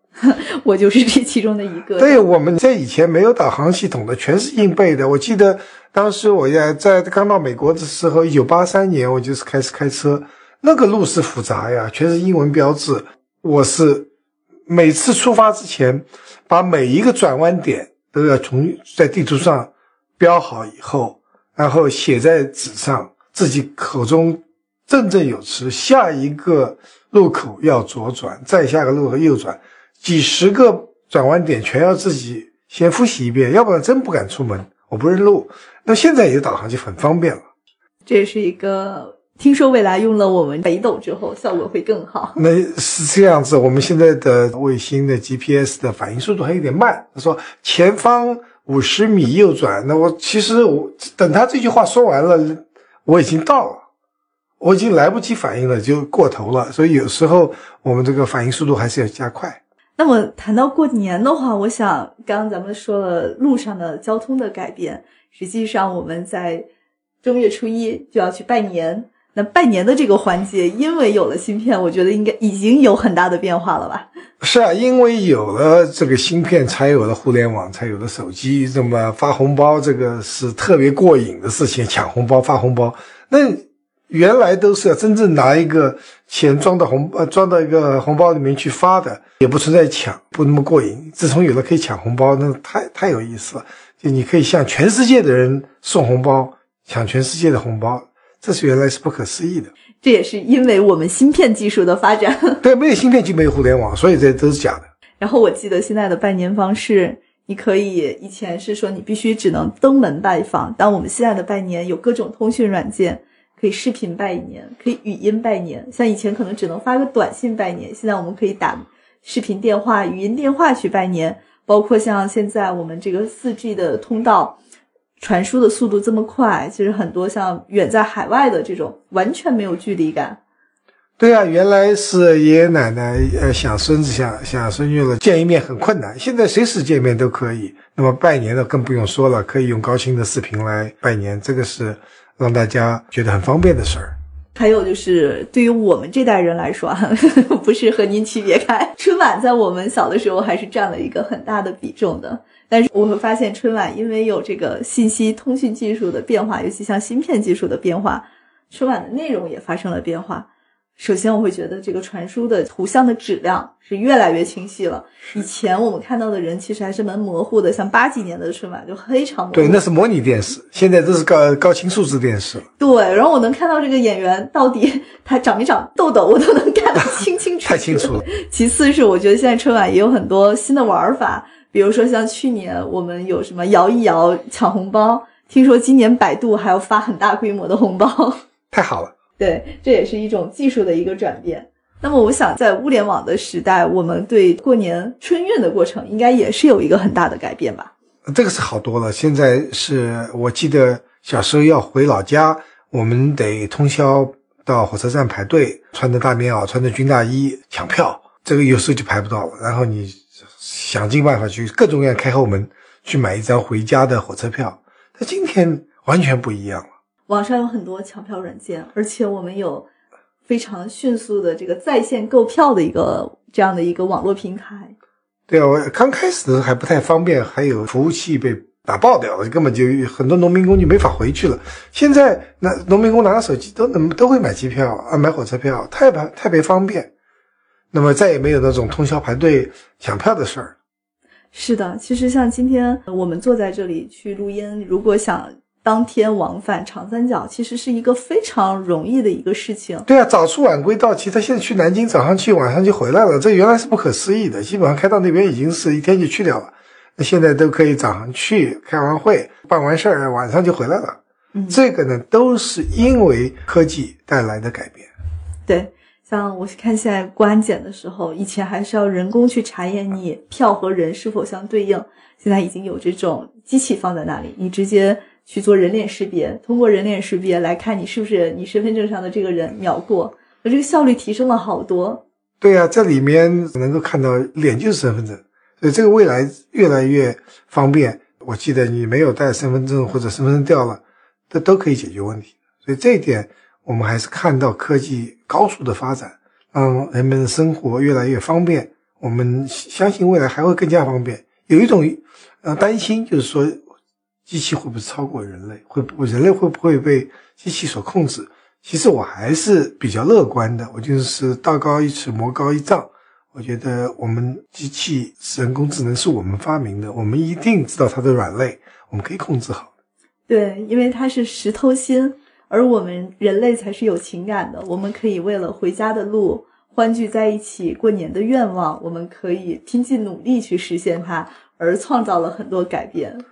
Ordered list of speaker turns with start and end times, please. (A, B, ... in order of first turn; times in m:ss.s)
0:00.2-0:02.2 A
0:02.0-0:14.1 B
0:14.7-0:37.4 B
0:38.1-0:42.4 A
0:42.4-0:53.8 B
0:54.6-0:59.6 B
1:00.0-1:06.7 A
1:07.2-1:14.1 A
1:14.4-1:39.7 B
1:40.0-1:42.6 A
1:42.6-1:44.9 B
1:45.2-2:04.6 A
2:05.2-2:10.4 A
2:11.2-2:24.1 B
2:24.6-2:49.8 A
2:49.5-2:52.6 B
2:52.8-3:08.4 A
2:57.6-2:58.3 B
3:08.7-3:09.1 B
3:09.4-3:17.9 A
3:18.3-3:36.9 B
3:37.3-3:39.9 A
3:40.5-3:44.9 A
3:45.5-3:57.1 B
3:57.9-4:00.8 B
4:01.5-4:10.1 A
4:10.1-4:25.1 B
4:21.5-4:21.8 A
4:25.7-4:42.2 A
4:42.6-5:03.8 B
5:04.5-5:19.9 B
5:20.5-5:33.4 A